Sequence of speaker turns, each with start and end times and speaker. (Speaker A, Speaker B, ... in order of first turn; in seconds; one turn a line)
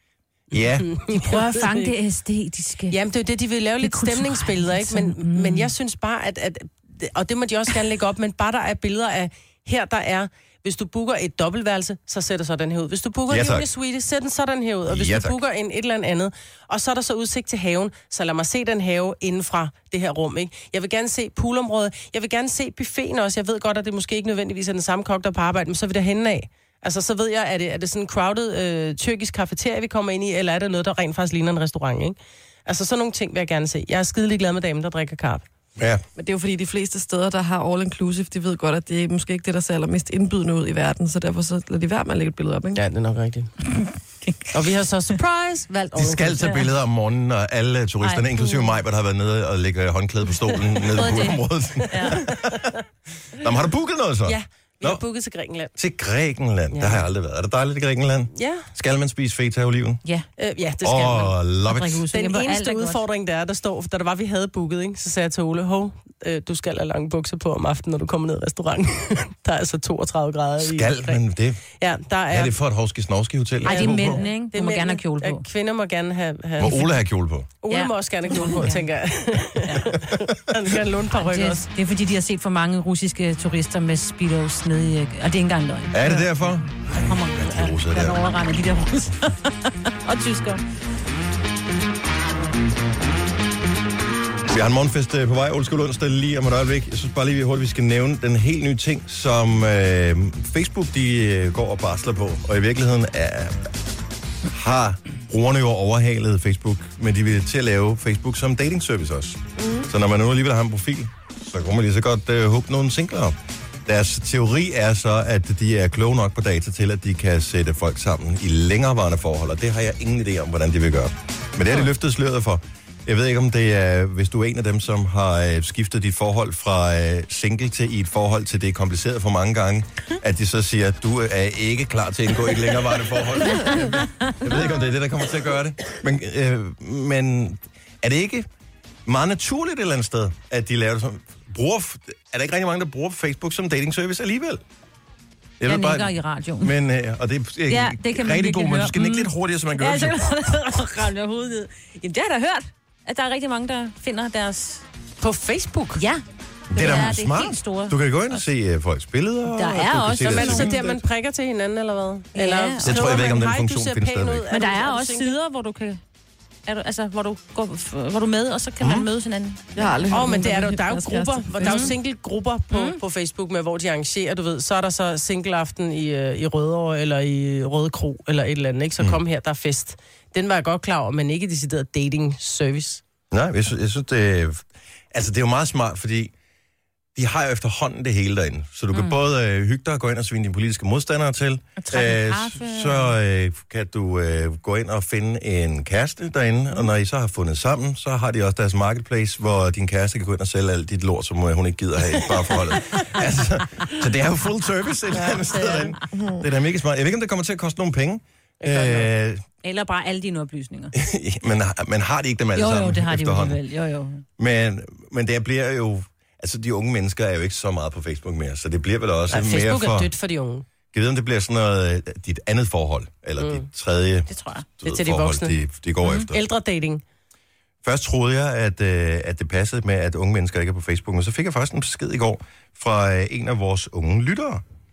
Speaker A: 0.5-0.9
Speaker B: 0.6-1.9
Speaker C: 1.1-3.0
Speaker B: 2.9-35.4
Speaker C: 3.8-5.7
Speaker A: 13.3-13.7
Speaker A: 14.9-15.4
Speaker A: 35.8-36.0
Speaker D: 36.1-42.8
Speaker B: 42.7-43.5
Speaker C: 43.8-44.5
Speaker B: 44.5-46.7
Speaker A: 45.9-52.7
Speaker C: 48.0-48.7
Speaker C: 50.9-52.2
Speaker B: 52.3-52.6
Speaker A: 53.3-55.0
Speaker B: 54.2-55.7
Speaker A: 55.8-60.0
Speaker B: 56.7-57.0
Speaker B: 58.3-58.7
Speaker B: 60.4-61.4
Speaker A: 60.8-62.0
Speaker C: 61.7-63.0
Speaker B: 62.1-71.2
Speaker A: 70.6-71.6
Speaker B: 71.8-72.5
Speaker A: 72.3-74.2
Speaker B: 73.6-76.9
Speaker C: 73.7-75.4
Speaker A: 76.6-77.5
Speaker B: 77.6-81.6
Speaker C: 77.7-78.8
Speaker C: 79.7-79.9
Speaker C: 81.1-86.4
Speaker A: 85.9-88.2
Speaker C: 87.0-90.6
Speaker A: 94.5-103.7
Speaker A: 104.5-138.5
Speaker D: 109.6-109.9
Speaker C: 133.5-134.4
Speaker A: 139.1-144.6
Speaker A: 145.6-150.3
Speaker C: 145.6-146.7
Speaker C: 147.7-154.8
Speaker B: 155.2-156.0
Speaker C: 155.9-156.2
Speaker A: 156.7-161.0
Speaker C: 156.7-158.4
Speaker C: 159.5-160.8
Speaker B: 160.2-165.3
Speaker C: 162.3-163.0
Speaker A: 162.8-164.5
Speaker C: 164.5-166.0
Speaker C: 166.7-169.8
Speaker D: 169.8-171.9
Speaker B: 170.1-183.0
Speaker C: 171.6-171.9
Speaker C: 172.7-173.0
Speaker A: 183.3-186.3
Speaker A: 187.1-209.4
Speaker C: 188.9-189.2
Speaker C: 191.8-193.1
Speaker B: 205.2-205.8
Speaker B: 208.6-209.1
Speaker C: 209.6-210.9
Speaker A: 210.9-213.6
Speaker C: 212.5-214.2
Speaker A: 214.4-220.1
Speaker B: 219.3-220.7
Speaker A: 220.9-226.4
Speaker B: 223.4-223.7
Speaker C: 224.3-224.7
Speaker B: 224.8-225.6
Speaker B: 226.3-227.0
Speaker A: 227.8-234.6